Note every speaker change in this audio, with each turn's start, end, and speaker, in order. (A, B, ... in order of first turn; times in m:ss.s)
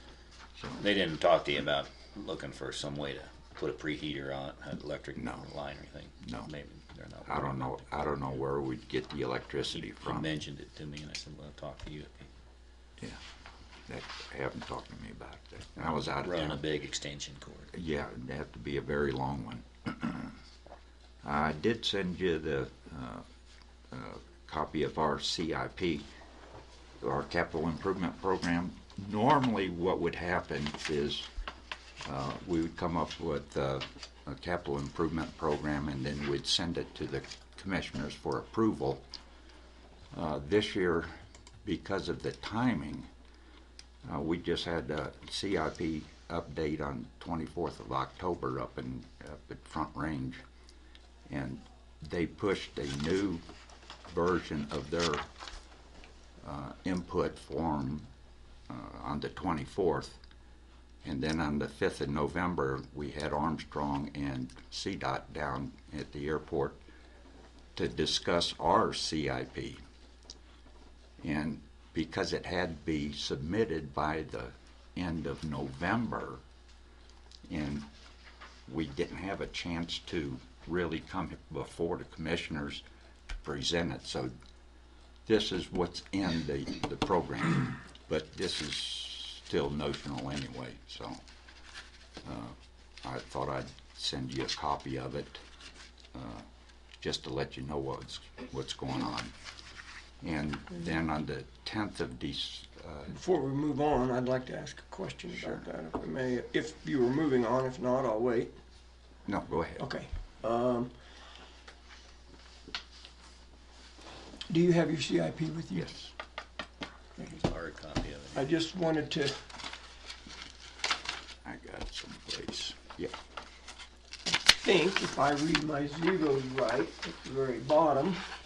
0:00.6-0:00.8 A
0:00.8-0:07.8 B
0:05.2-0:05.4 A
0:06.2-0:06.5 A
0:07.2-0:10.3 A
0:09.7-0:12.3 B
0:13.9-0:16.6 A
0:15.8-0:17.7 B
0:17.7-0:20.3 A
0:21.2-0:23.2 A
0:23.9-0:26.1 A
0:27.0-0:31.3 A
0:32.0-0:39.0 A
0:40.1-0:41.1 A
0:41.6-0:43.1 A
0:44.0-0:50.4 A
0:51.3-0:53.4 A
0:54.1-0:55.2 A
0:56.4-0:58.1 A
0:58.7-1:00.2 A
1:01.0-1:06.8 A
1:07.7-1:09.8 A
1:11.2-1:16.4 A
1:17.5-1:17.8 A
1:18.7-1:22.8 A
1:23.4-1:24.3 A
1:25.2-1:31.2 A
1:32.2-1:35.4 A
1:36.1-1:36.4 A
1:37.0-1:39.3 A
1:40.2-1:43.2 A
1:43.1-1:48.5 C
1:45.3-1:45.6 A
1:49.2-1:49.8 A
1:49.8-1:50.9 C
1:54.5-1:55.9 C
1:55.7-1:56.1 A
1:57.2-1:58.5 B
1:58.3-1:59.4 C
2:01.4-2:03.1 A
2:04.5-2:08.2 C